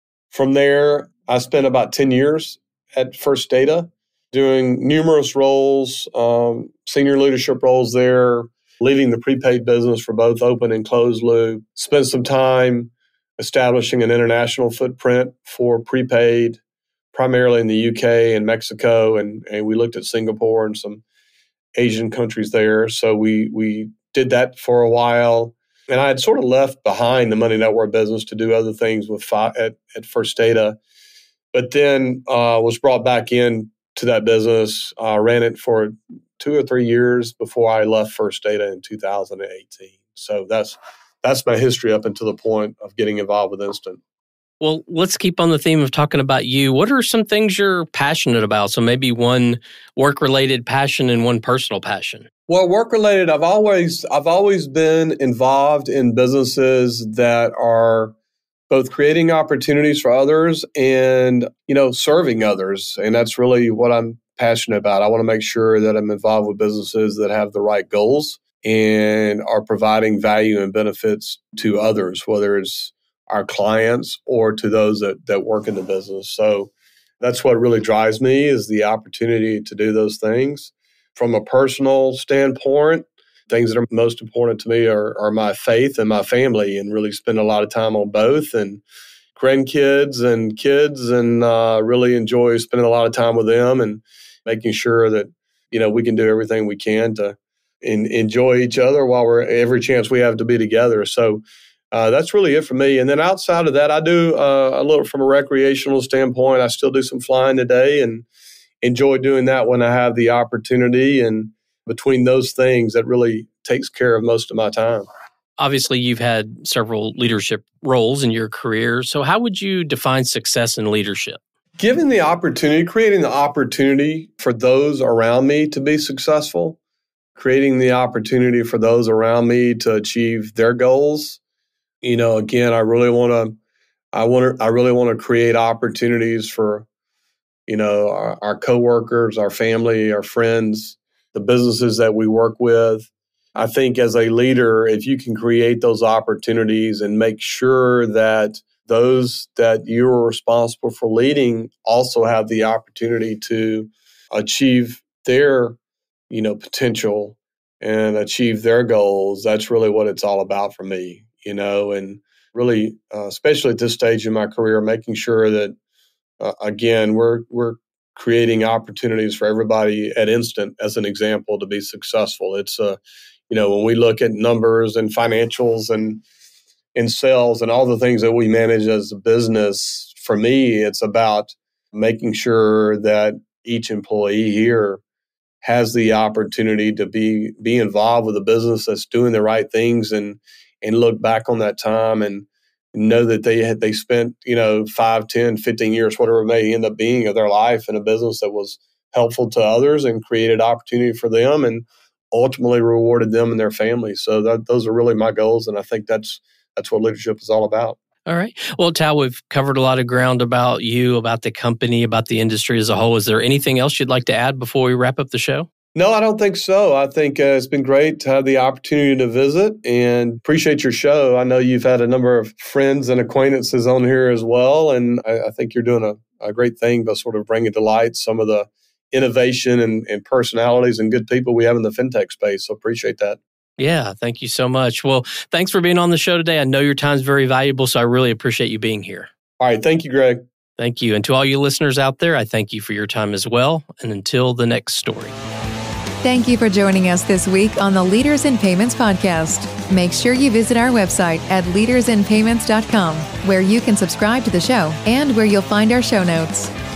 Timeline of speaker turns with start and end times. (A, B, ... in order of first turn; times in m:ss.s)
0:00.3-0:16.6 A
0:17.1-0:21.0 A
0:21.8-0:30.8 A
0:31.5-0:44.0 A
0:44.6-0:52.3 B
0:52.5-0:58.2 A
0:58.7-1:28.8 A
1:29.3-1:48.2 A
1:48.8-1:55.1 A
1:55.6-2:01.4 B
2:01.8-2:06.8 A
2:07.4-2:11.4 A
2:12.0-2:13.6 A
2:14.1-2:16.9 A
2:17.7-2:35.8 A
2:36.3-2:45.7 A
2:46.4-2:56.2 A
2:56.9-3:05.0 A
3:05.6-3:28.0 A
3:28.2-3:35.7 B
3:35.9-3:53.4 A
3:53.8-3:59.3 B
3:59.6-4:00.4 A
4:00.8-4:05.3 B
4:06.2-4:16.7 C